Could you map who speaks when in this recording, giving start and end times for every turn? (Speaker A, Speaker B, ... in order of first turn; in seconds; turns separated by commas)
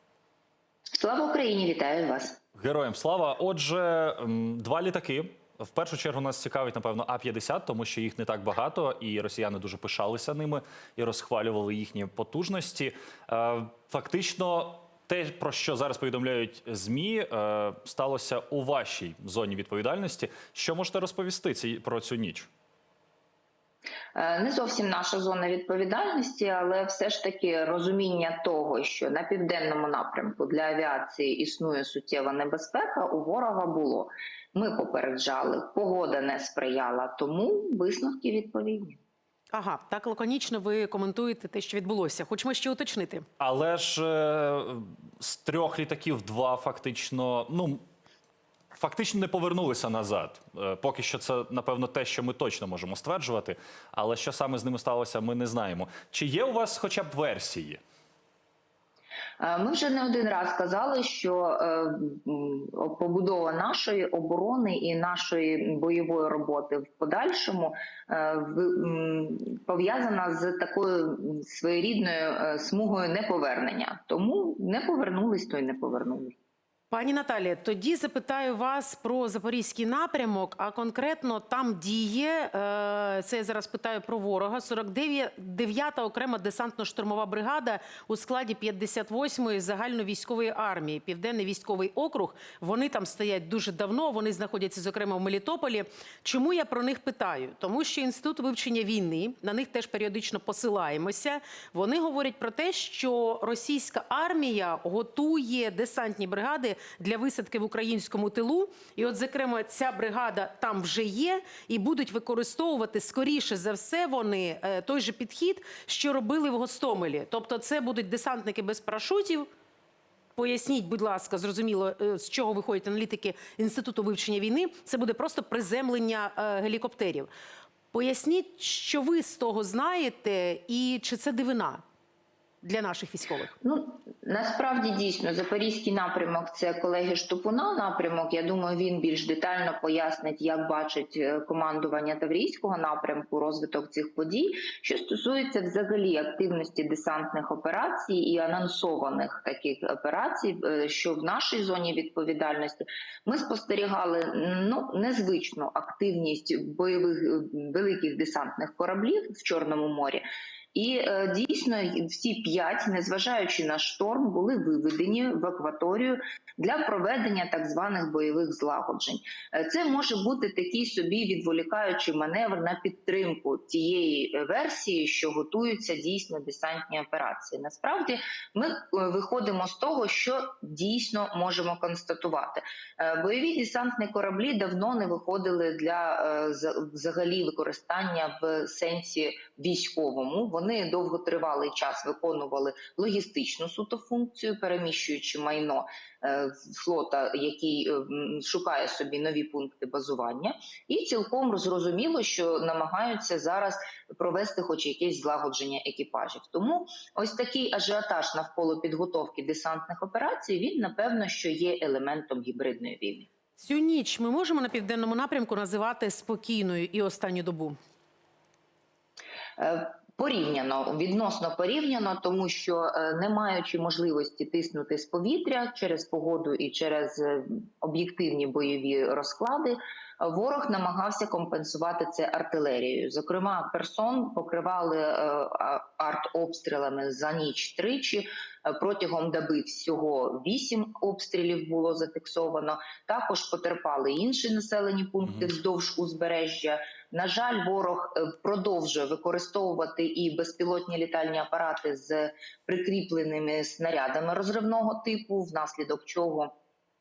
Speaker A: 0.9-2.4, Speaker B: 2.5-22.5, Speaker A: 24.1-39.0, Speaker C: 39.5-43.2, Speaker B: 43.4-47.8, Speaker B: 48.7-57.8, Speaker A: 59.4-76.3, Speaker C: 76.9-119.5, Speaker C: 120.3-127.3, Speaker C: 127.9-131.8, Speaker C: 132.6-133.5, Speaker A: 133.6-213.3, Speaker C: 213.6-217.8, Speaker A: 219.6-256.5